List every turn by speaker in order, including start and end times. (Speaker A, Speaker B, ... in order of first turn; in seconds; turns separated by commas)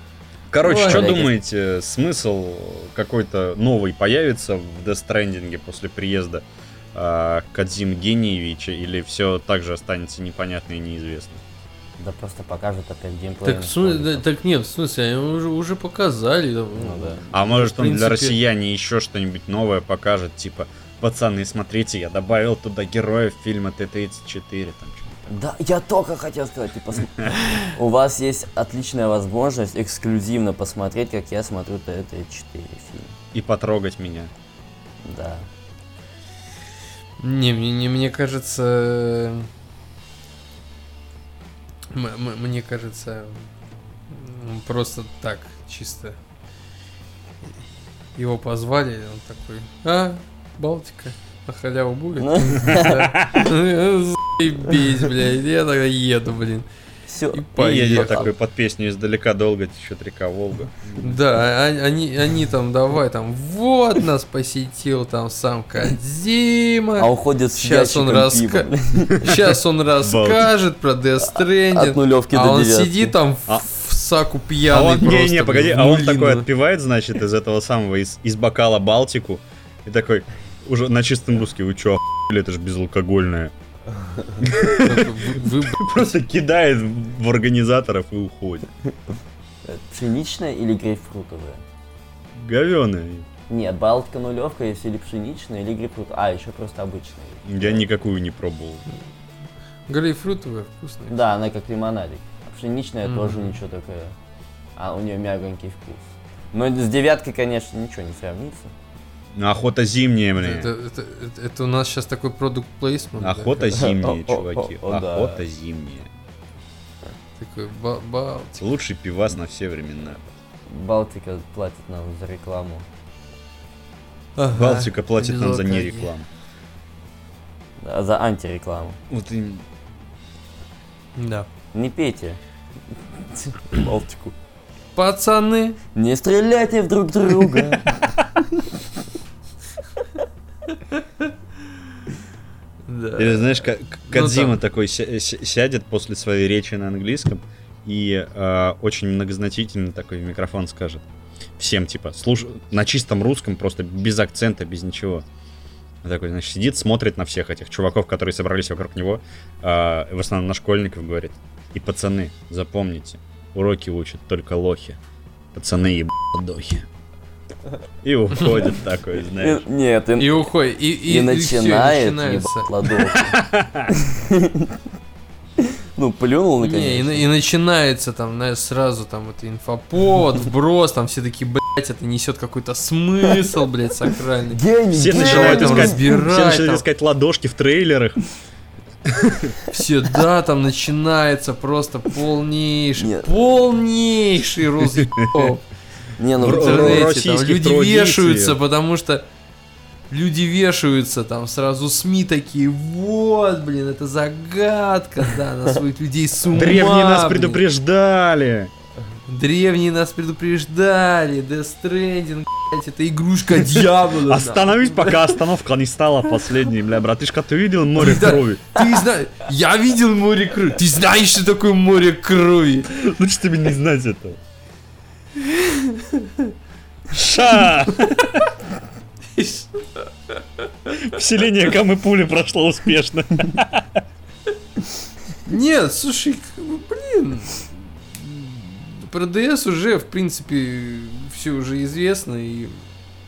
Speaker A: 0.5-6.4, Speaker B: 0.6-1.1, Speaker C: 0.7-1.3, Speaker A: 7.0-11.4, Speaker C: 12.0-14.2, Speaker B: 13.4-18.4, Speaker C: 16.8-17.2, Speaker A: 17.3-25.2, Speaker C: 25.3-33.1, Speaker A: 33.3-34.3, Speaker C: 35.0-35.5, Speaker B: 37.2-39.5, Speaker B: 41.9-43.5, Speaker B: 44.1-46.2, Speaker B: 48.2-56.7, Speaker C: 52.2-53.1, Speaker A: 52.9-53.5, Speaker C: 57.1-58.3, Speaker B: 57.3-58.3, Speaker A: 57.6-61.2, Speaker B: 61.0-76.5, Speaker C: 67.0-69.3, Speaker A: 69.2-69.4, Speaker A: 70.0-70.5, Speaker C: 71.2-73.2, Speaker A: 74.7-83.5, Speaker A: 84.4-88.7, Speaker B: 84.8-85.8, Speaker C: 89.7-91.6, Speaker A: 92.3-93.3, Speaker C: 93.5-97.8, Speaker A: 97.5-98.9, Speaker B: 99.9-101.2, Speaker C: 101.1-104.2, Speaker B: 103.0-103.6, Speaker C: 104.8-108.7, Speaker A: 109.3-110.7, Speaker B: 110.4-113.8, Speaker A: 113.2-116.1, Speaker C: 113.7-115.4, Speaker B: 117.4-118.6, Speaker A: 118.6-120.3, Speaker C: 120.7-122.9, Speaker B: 124.4-126.1, Speaker A: 124.5-126.3, Speaker C: 127.8-129.0, Speaker A: 129.1-129.6, Speaker B: 131.2-131.5, Speaker C: 131.7-132.4, Speaker C: 133.1-134.4, Speaker B: 134.9-135.8, Speaker C: 135.9-138.2, Speaker B: 140.7-141.3, Speaker B: 142.9-144.6, Speaker A: 143.2-151.0, Speaker A: 151.6-155.2, Speaker A: 156.0-165.0, Speaker A: 165.6-166.9, Speaker A: 168.0-169.6, Speaker C: 169.2-170.4, Speaker B: 170.2-172.7, Speaker C: 171.1-173.3, Speaker A: 173.0-173.9, Speaker C: 173.9-174.8, Speaker C: 175.6-177.3, Speaker B: 176.6-186.8, Speaker C: 184.5-186.1, Speaker A: 184.9-188.3, Speaker A: 189.1-189.6, Speaker B: 189.7-195.7, Speaker C: 193.0-193.3, Speaker A: 195.0-195.5, Speaker C: 196.2-197.1, Speaker A: 196.4-198.6, Speaker B: 196.4-199.2, Speaker B: 200.1-207.6, Speaker A: 206.5-208.7, Speaker B: 209.3-215.3, Speaker A: 213.7-218.8, Speaker B: 218.0-222.9, Speaker A: 222.9-224.4, Speaker B: 225.4-226.5, Speaker A: 227.1-228.5, Speaker B: 229.3-230.9, Speaker A: 230.9-233.9, Speaker B: 235.5-242.8